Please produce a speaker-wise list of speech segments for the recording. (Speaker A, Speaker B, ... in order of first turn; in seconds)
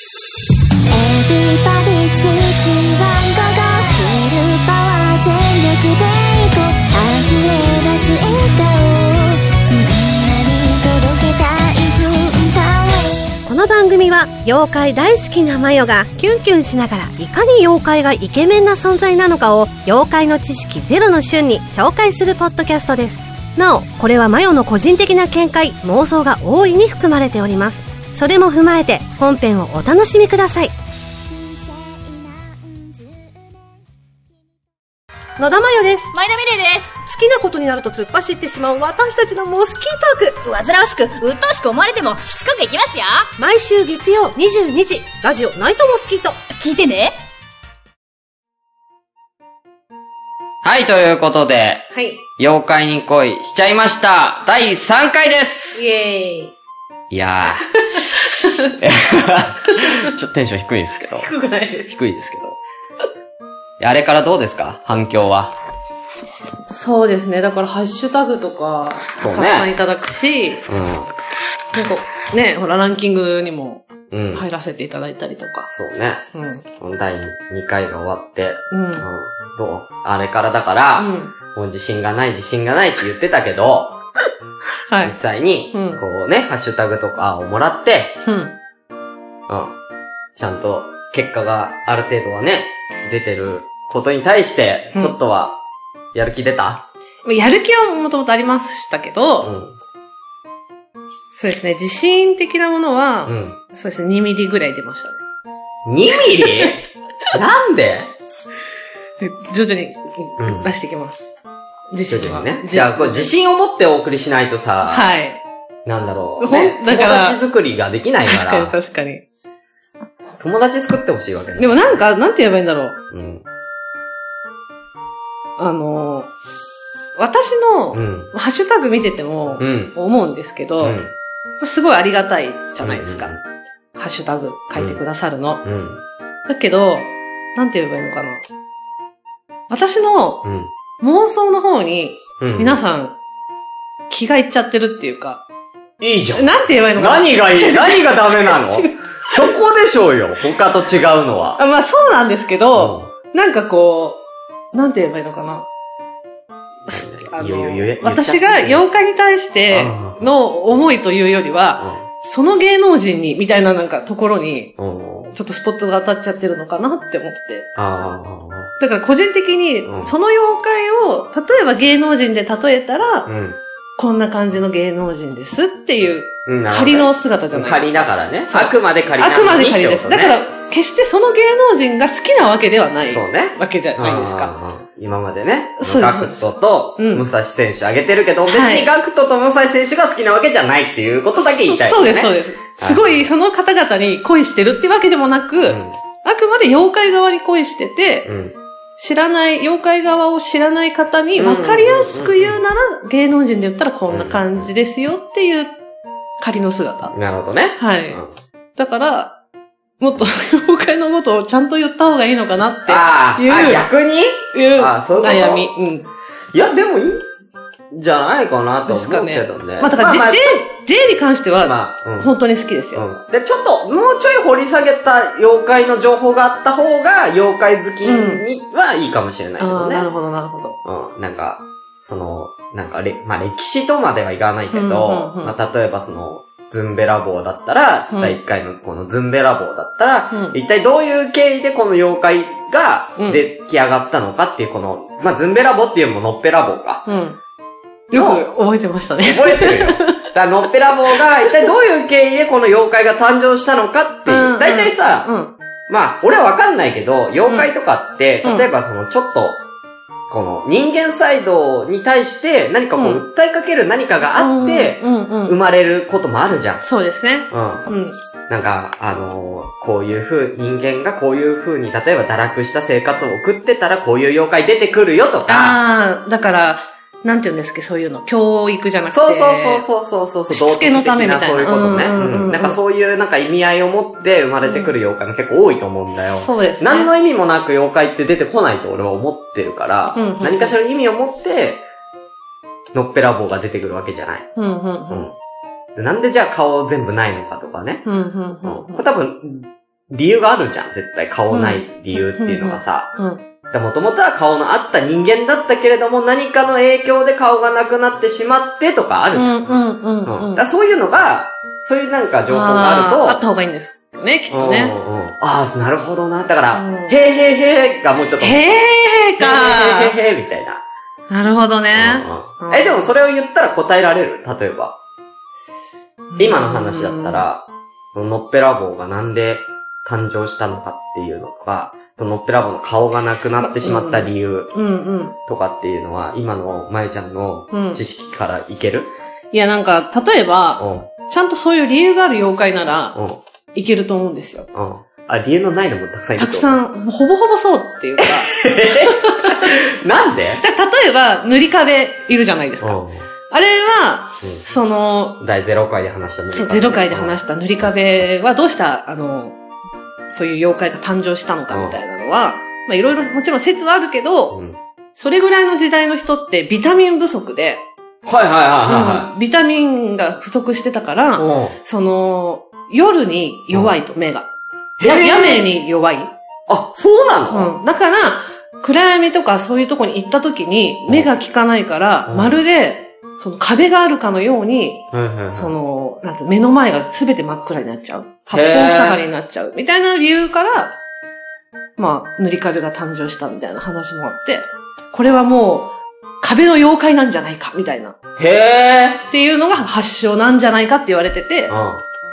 Speaker A: 0.9-13.4, 31.2-33.5
Speaker B: 13.4-30.7, 35.4-36.1, 37.0-40.4, 43.4-46.4
Speaker C: 36.1-37.0, 40.4-43.3, 46.5-47.2
Speaker D: 50.6-55.8, 57.1-61.3, 61.9-62.6, 63.8-65.5, 69.2-69.7, 70.7-71.1, 74.1-74.5, 75.7-76.2, 76.8-84.0, 85.0-88.2, 89.5-89.8, 90.4-95.6, 96.1-96.8, 99.4-99.8, 103.2-103.6, 105.9-108.1, 110.4-110.7, 112.1-115.1, 115.8-118.8, 120.4-122.0, 123.1-123.4, 127.9-128.3, 129.6-129.9, 130.8-131.1, 132.8-133.4, 134.8-135.0, 135.6-136.0, 140.4-140.7, 142.4-142.8, 146.0-151.6, 152.7-153.1, 156.9-158.8, 159.7-160.8, 161.8-162.1, 164.8-165.3, 167.8-168.7, 169.8-170.1, 173.2-173.6, 176.5-180.4, 183.1-193.2, 195.7-196.0, 198.2-198.5, 201.3-202.6, 204.1-204.7, 207.1-208.3, 212.9-215.7, 216.5-217.2, 217.9-220.6, 221.6-222.3, 222.9-230.1, 230.8-247.1, 248.1-248.4, 249.2-255.3, 255.9-259.6, 260.3-266.8, 267.5-267.9, 268.5-275.8, 279.1-291.9, 292.9-294.5, 295.9-298.1, 298.6-303.1, 303.7-309.8, 310.2-313.4, 314.5-318.8, 319.4-320.8, 321.9-325.0, 326.4-334.7, 335.5-339.1, 340.8-341.1, 343.1-343.4, 344.7-346.8, 348.2-350.6, 352.8-353.3, 355.4-357.4, 361.7-362.0, 364.5-364.8, 368.2-369.3, 371.4-371.8, 375.0-375.6, 376.7-377.7, 382.3-382.6, 385.1-385.7, 388.5-389.2, 398.4-399.2, 401.7-402.0
Speaker E: 51.9-52.2, 55.7-56.5, 57.9-58.8, 59.7-60.1, 61.2-61.9, 66.7-70.7, 71.7-75.7, 76.3-76.6, 78.7-79.1, 81.0-81.3, 84.9-85.1, 85.7-86.0, 88.2-88.5, 97.2-99.5, 101.3-105.2, 106.4-106.7, 109.2-111.3, 111.9-113.3, 114.9-115.4, 116.4-117.4, 118.2-119.2, 121.6-123.0, 125.6-126.3, 127.2-131.0, 131.6-133.3, 134.0-135.6, 136.5-138.4, 139.7-140.5, 141.0-143.2, 144.1-145.4, 146.3-149.5, 151.6-154.2, 154.7-155.7, 156.9-164.8, 165.3-167.7, 168.8-173.3, 174.0-184.5, 185.8-187.2, 188.5-188.9, 191.6-198.3, 199.0-205.7, 206.4-207.2, 207.8-208.2, 208.8-209.4, 210.0-213.9, 214.5-216.1, 218.9-223.0, 228.0-228.4, 229.6-230.8, 234.7-235.5, 238.1-238.4, 240.3-240.6, 247.1-247.4, 248.1-250.2, 254.3-255.5, 257.4-257.7, 258.4-258.7, 262.9-263.2, 264.4-265.6, 266.8-268.1, 275.5-279.9, 280.5-282.8, 284.6-284.9, 286.3-287.1, 290.1-290.8, 294.6-295.3, 298.1-299.0, 301.5-303.4, 309.4-310.6, 312.5-314.9, 316.7-317.2, 318.4-320.1, 321.3-323.1, 326.3-327.4, 333.6-335.4, 337.7-338.0, 339.5-343.2, 343.7-344.7, 346.4-349.7, 350.6-355.4, 356.5-359.6, 360.3-364.6, 365.2-367.9, 368.9-374.5, 375.0-376.3, 377.5-390.9, 392.0-398.1, 399.3-401.8